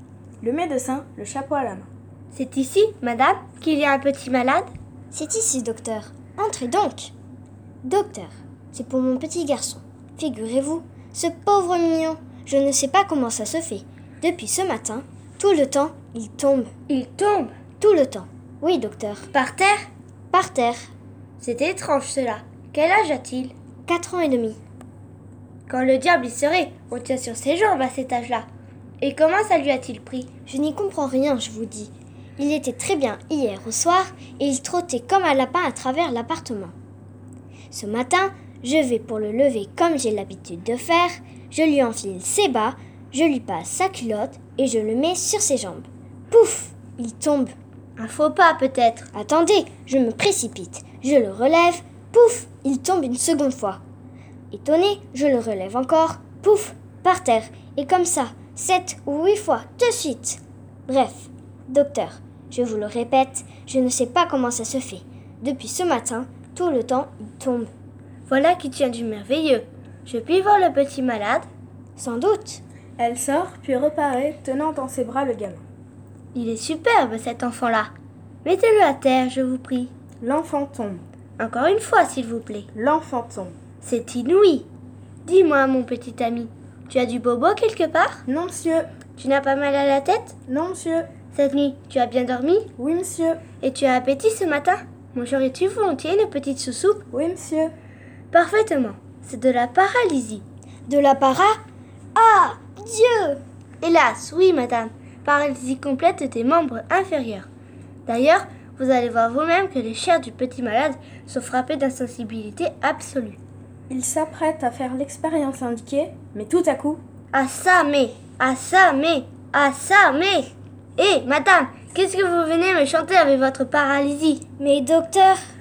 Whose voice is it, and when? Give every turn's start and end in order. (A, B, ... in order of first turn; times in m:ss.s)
0:00.4-0:01.9 A
0:02.3-0:04.7 B
0:05.1-0:07.1 C
0:07.8-0:16.7 C
0:16.9-0:17.5 B
0:17.8-0:19.3 C
0:19.3-0:19.9 B
0:20.3-0:20.9 C
0:21.4-0:23.5 B
0:23.9-0:24.6 C
0:25.7-0:28.5 B
0:29.0-0:30.3 B
0:30.5-0:36.7 C
0:37.7-0:47.5 C
0:48.0-0:49.1 B
0:49.1-0:53.8 C
0:54.5-1:07.7 C
1:08.3-1:11.5 B
1:12.0-1:12.6 C
1:13.0-1:15.6 A
1:16.4-1:17.9 B
1:18.4-1:19.9 B
1:20.2-1:21.0 A
1:21.4-1:22.7 B
1:22.7-1:23.6 A
1:23.8-1:24.7 B
1:25.2-1:28.2 B
1:28.3-1:28.9 A
1:29.2-1:30.4 B
1:30.5-1:31.1 A
1:31.3-1:32.7 B
1:32.8-1:33.4 A
1:33.6-1:37.0 B
1:37.1-1:37.7 A
1:38.3-1:40.4 B
1:40.9-1:41.6 C
1:42.2-1:43.4 C
1:43.8-1:47.5 B
1:48.1-1:53.4 B
1:53.9-1:57.0 A
1:57.3-2:04.4 B
2:04.6-2:05.4 C